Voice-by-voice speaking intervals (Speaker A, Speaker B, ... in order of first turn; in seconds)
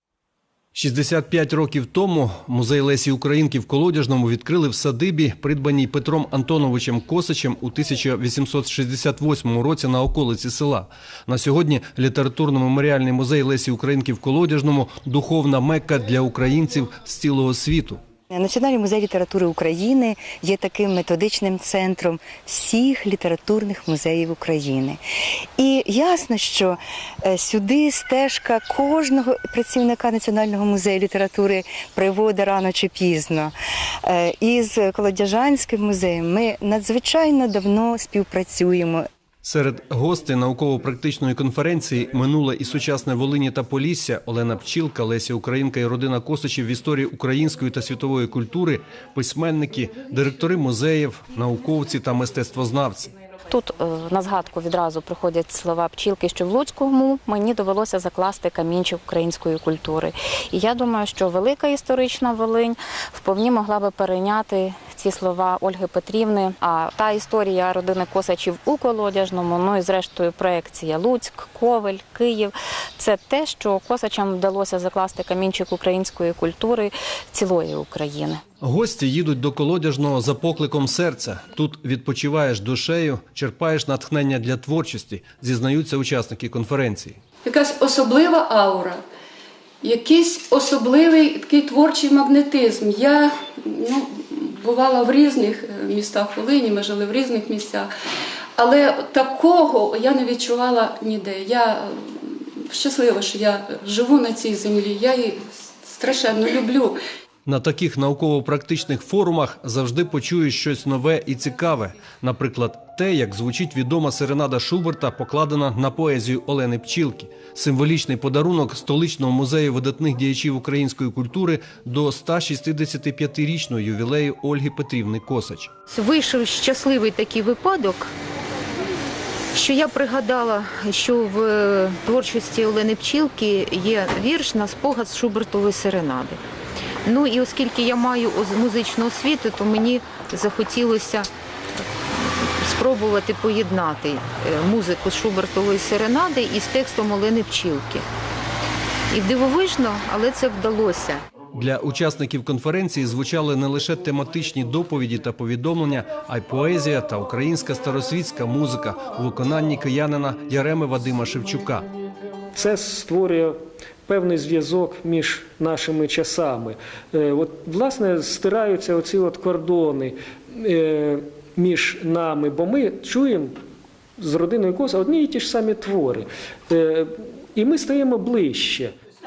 Speaker A: 0.7-18.0, 39.4-53.1, 78.6-87.2, 107.5-125.7, 151.5-161.9
Speaker B: 18.3-25.0, 25.6-33.5, 34.1-39.0
Speaker C: 53.5-78.4
Speaker D: 87.4-89.0, 89.8-97.9, 98.6-107.0
Speaker E: 125.9-128.1, 129.5-136.4, 137.1-141.3, 141.9-148.0, 149.1-151.2
Speaker F: 162.6-163.6, 164.1-173.6, 174.2-178.9